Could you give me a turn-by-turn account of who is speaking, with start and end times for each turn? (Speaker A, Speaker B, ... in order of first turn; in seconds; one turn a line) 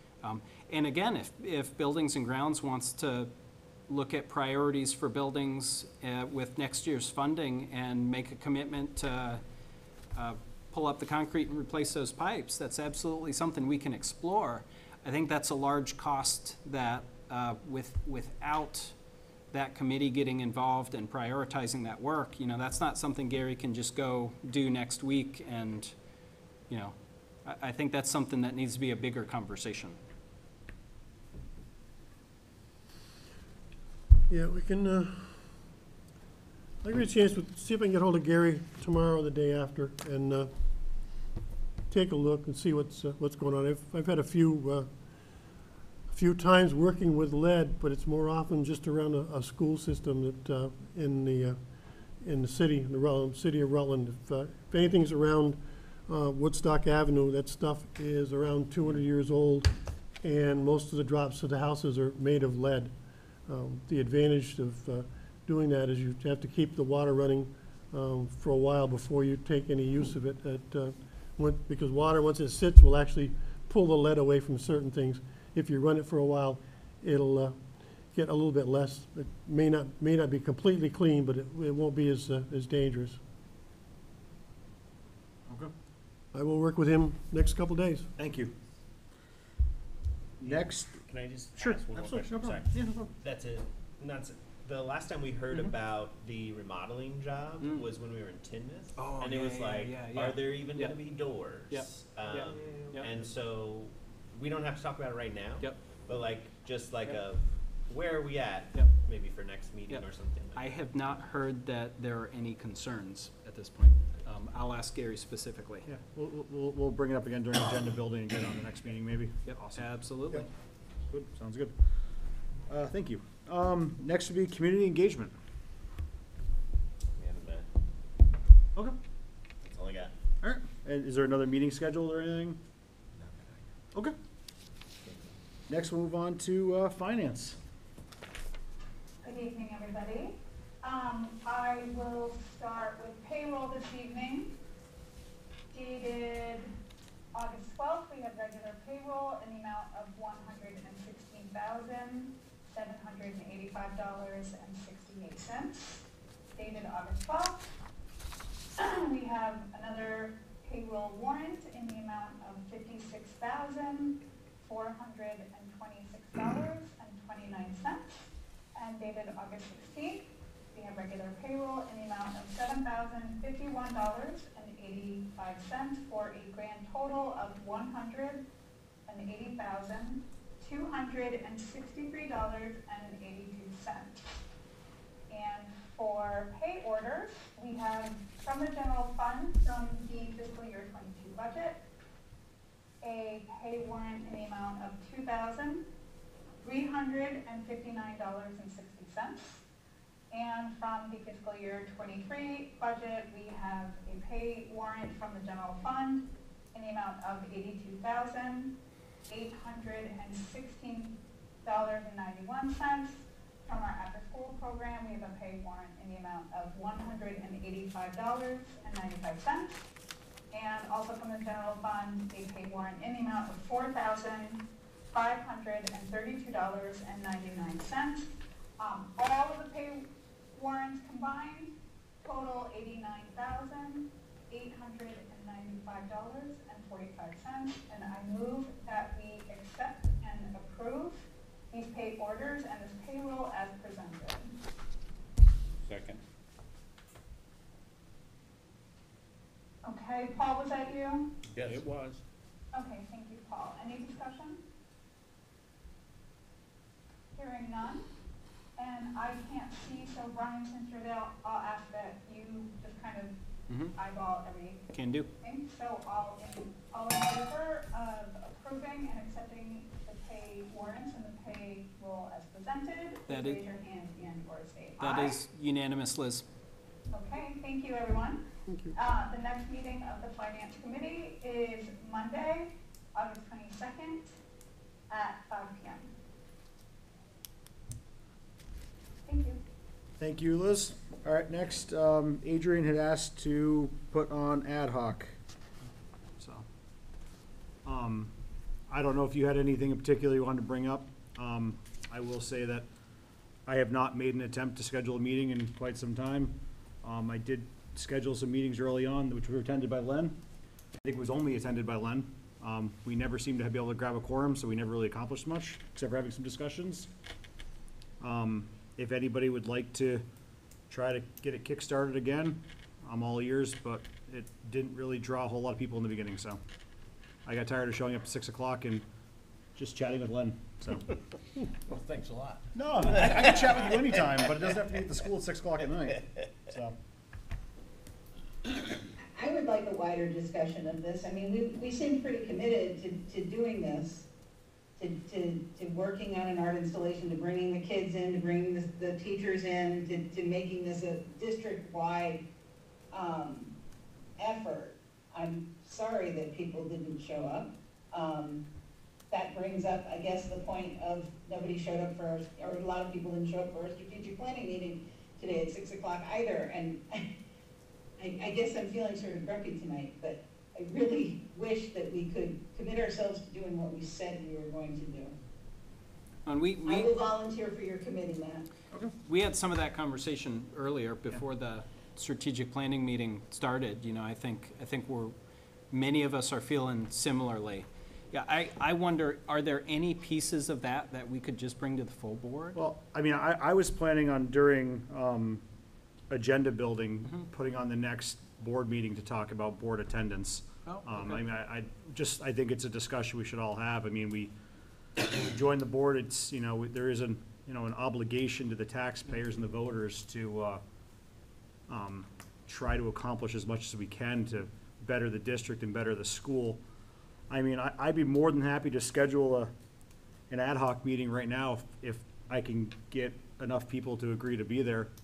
Speaker A: 0.2-3.3
Speaker A: 3.9-9.4
Speaker A: 10.1-18.9
Speaker A: 19.5-25.9
Speaker A: 26.7-30.0
Speaker B: 34.3-35.5
Speaker B: 36.8-40.5
Speaker B: 41.9-44.9
Speaker B: 46.1-51.6
Speaker B: 52.2-62.9
Speaker B: 63.5-83.2
Speaker B: 86.3-88.1
Speaker C: 88.2-88.5
Speaker D: 90.4-110.8
Speaker C: 90.4-91.0
Speaker C: 91.6-93.1
Speaker A: 99.0-101.0
Speaker A: 101.5-103.1
Speaker A: 109.9-115.9
Speaker C: 115.8-120.5
Speaker A: 119.4-120.5
Speaker C: 121.1-125.3
Speaker D: 127.2-127.7
Speaker D: 129.6-130.1
Speaker C: 130.4-132.6
Speaker D: 133.1-133.6
Speaker C: 135.7-137.6
Speaker E: 139.2-144.5
Speaker E: 145.7-146.7
Speaker E: 147.3-156.0
Speaker E: 156.6-157.6
Speaker E: 158.8-168.2
Speaker E: 168.8-178.4
Speaker E: 179.1-184.2
Speaker E: 185.3-191.8
Speaker E: 193.0-195.8
Speaker E: 196.6-199.6
Speaker E: 200.3-208.8
Speaker E: 209.3-219.7
Speaker E: 220.5-228.3
Speaker E: 228.8-231.7
Speaker E: 232.2-244.6
Speaker E: 249.8-251.3
Speaker F: 251.5-251.8
Speaker E: 252.7-254.6
Speaker E: 257.4-258.0
Speaker E: 258.8-263.4
Speaker A: 263.7-263.9
Speaker E: 263.9-264.8
Speaker A: 264.9-265.3
Speaker E: 265.4-275.4
Speaker A: 273.3-273.6
Speaker A: 275.0-276.4
Speaker E: 277.1-284.2
Speaker E: 285.1-286.1
Speaker E: 289.3-289.6
Speaker C: 290.2-295.4
Speaker C: 296.4-296.6
Speaker C: 297.8-298.3
Speaker C: 298.9-302.9
Speaker C: 303.6-310.4
Speaker C: 311.0-317.1
Speaker C: 318.2-320.2
Speaker C: 320.9-326.6
Speaker C: 327.4-329.1
Speaker C: 329.7-331.1
Speaker F: 331.9-334.0
Speaker C: 332.7-337.0
Speaker G: 339.3-344.3
Speaker G: 345.0-352.4
Speaker G: 353.1-353.7
Speaker G: 354.4-358.6
Speaker G: 359.3-367.3
Speaker G: 368.2-375.3
Speaker A: 376.4-377.1
Speaker G: 376.9-378.7
Speaker A: 379.2-385.3
Speaker A: 385.9-392.8
Speaker C: 392.7-395.6
Speaker C: 396.3-404.5
Speaker A: 400.9-401.5
Speaker C: 405.2-410.8
Speaker C: 411.9-416.8
Speaker C: 417.5-419.7
Speaker C: 420.5-425.1